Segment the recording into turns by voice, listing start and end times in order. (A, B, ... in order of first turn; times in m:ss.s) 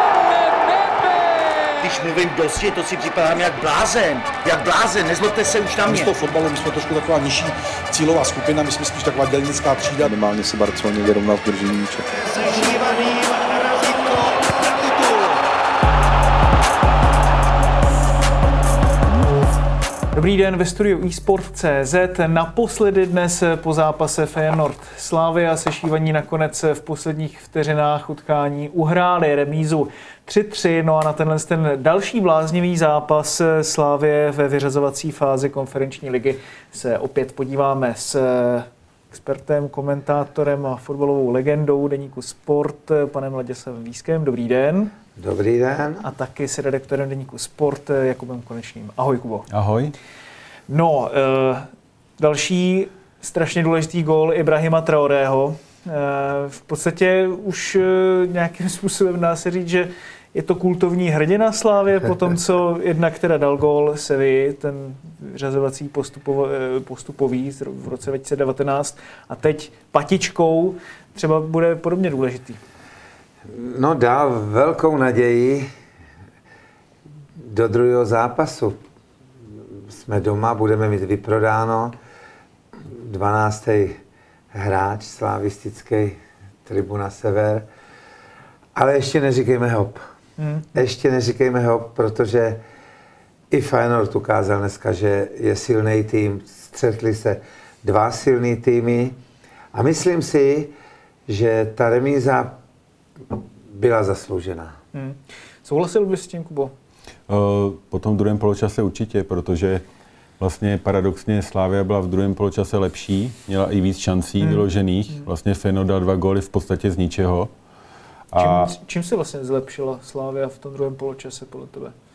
0:01.8-0:06.1 A
0:05.8-0:10.1 B
0:10.0-0:12.0 C
0:12.3-0:14.3 A
0:20.1-0:44.9 D
0:45.2-0:46.0 E
0:46.0-0:49.4 D
0:49.5-0:49.9 F
0:50.7-0:51.7 D
0:52.2-1:12.6 D
1:13.5-1:15.7 E
1:17.4-1:18.8 E
1:19.9-1:22.0 E
1:22.8-1:24.0 E
1:24.5-1:27.7 E
1:28.7-1:30.0 E
1:30.4-1:30.7 D
1:30.7-1:32.6 E
1:33.5-1:39.2 E
1:39.7-1:40.7 E
1:41.3-1:42.6 E
1:43.3-1:44.8 E
1:44.9-1:46.7 D
1:47.3-1:49.8 F
1:50.4-1:57.5 F
1:54.4-1:55.3 D
1:58.3-1:58.7 F
1:58.4-2:01.9 D